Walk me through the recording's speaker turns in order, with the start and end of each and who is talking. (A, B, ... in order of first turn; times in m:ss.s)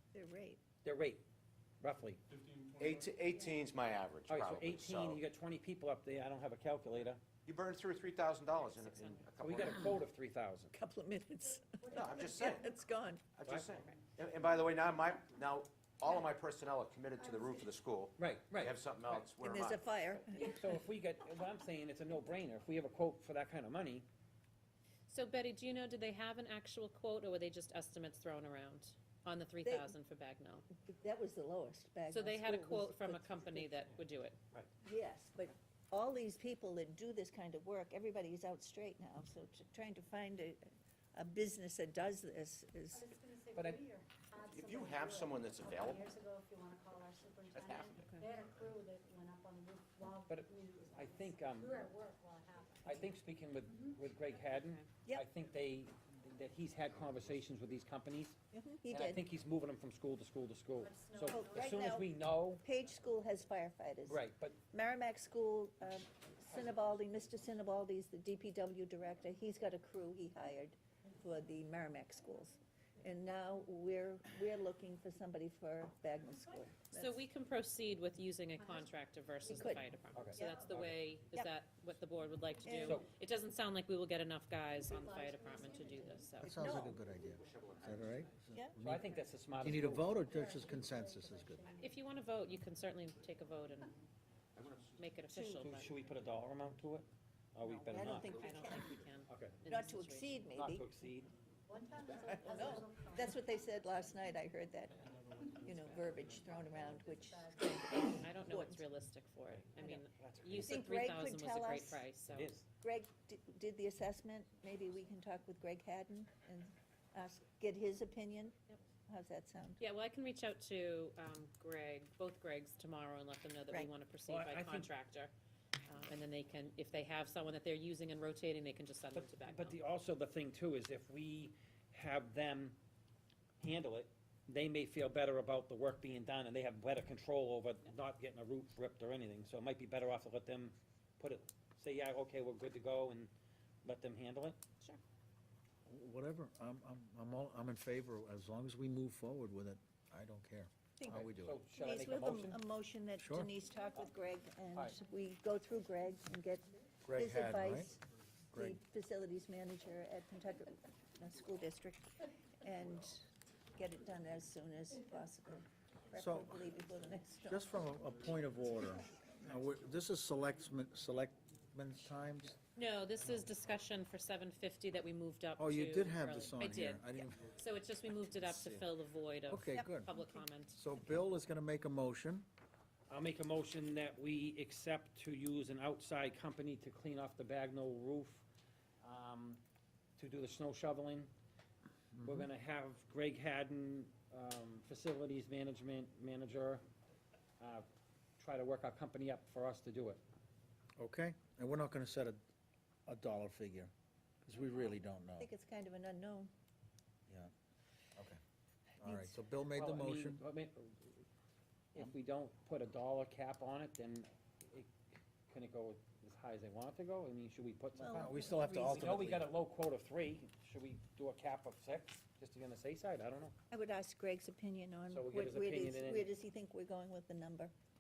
0:00.1-0:00.6 A
0:00.8-0:01.2 B
0:01.8-0:02.2 B
0:02.8-0:05.2 C
0:04.3-0:07.2 B
0:07.4-0:10.0 C
0:08.5-0:09.3 D
0:09.4-0:10.7 B
0:10.7-0:13.3 A
0:11.9-0:12.7 C
0:13.3-0:19.8 C
0:17.2-0:17.7 E
0:18.2-0:18.8 B
0:19.1-0:20.8 A
0:20.4-0:24.0 B
0:25.1-0:30.7 D
0:29.6-0:29.9 A
0:30.7-0:33.7 A
0:32.1-0:34.4 D
0:34.8-0:43.1 A
0:42.9-0:53.1 E
0:44.4-0:46.1 C
0:47.5-0:48.0 C
0:48.0-0:48.3 D
0:50.3-0:51.8 B
0:52.8-1:02.6 B
0:54.4-0:54.9 D
0:58.5-0:59.2 A
1:00.8-1:01.8 E
1:01.3-1:02.1 A
1:02.6-1:17.2 A
1:04.0-1:04.6 B
1:16.9-1:26.7 D
1:19.5-1:20.6 A
1:20.1-1:21.0 B
1:20.5-1:20.8 E
1:22.6-1:23.0 A
1:24.8-1:26.4 E
1:26.4-1:27.0 A
1:26.4-1:31.6 F
1:26.8-1:28.1 C
1:28.8-1:30.1 B
1:29.6-1:32.1 E
1:31.8-1:33.9 D
1:34.6-1:35.0 C
1:35.0-1:35.9 D
1:35.3-1:35.7 A
1:35.6-1:38.4 B
1:37.9-1:39.0 A
1:37.9-1:39.0 C
1:38.2-1:40.3 D
1:39.2-1:39.6 B
1:39.7-1:41.0 A
1:40.5-1:41.3 B
1:41.7-1:43.4 E
1:42.4-1:45.0 A
1:45.6-1:48.8 A
1:46.7-1:47.9 E
1:47.6-1:52.5 D
1:49.8-1:50.0 A
1:50.2-1:50.8 B
1:50.6-1:52.0 A
1:52.3-1:52.6 B
1:52.8-1:58.6 A
1:59.1-1:59.8 A
1:59.8-2:05.3 D
2:04.3-2:04.9 B
2:05.9-2:09.8 D
2:09.1-2:12.8 B
2:13.6-2:23.3 B
2:23.8-2:24.6 B
2:25.9-2:31.6 F
2:31.0-2:38.0 A
2:31.1-2:32.6 B
2:33.2-2:33.5 F
2:37.0-2:38.0 F
2:38.5-2:38.8 F
2:38.6-2:47.6 A
2:46.2-2:46.7 F
2:47.5-2:52.6 F
2:52.8-3:00.8 D
2:55.6-2:57.5 F
2:58.4-2:58.9 F
2:59.5-3:00.1 F
2:59.8-3:00.4 A
3:00.7-3:02.5 F
3:03.1-3:08.4 B
3:09.0-3:09.6 B
3:10.2-3:11.3 B
3:12.1-3:12.5 F
3:12.2-3:16.8 B
3:17.6-3:17.8 B
3:18.4-3:20.2 B
3:21.0-3:22.4 F
3:23.0-3:23.9 F
3:24.4-3:25.5 F
3:25.4-3:26.5 A
3:29.0-3:30.4 F
3:29.0-3:29.3 A
3:29.7-3:31.2 B
3:31.9-3:34.9 B
3:35.5-3:43.5 B
3:38.0-3:39.3 A
3:38.2-3:39.5 F
3:43.7-3:47.7 A
3:45.1-3:46.3 B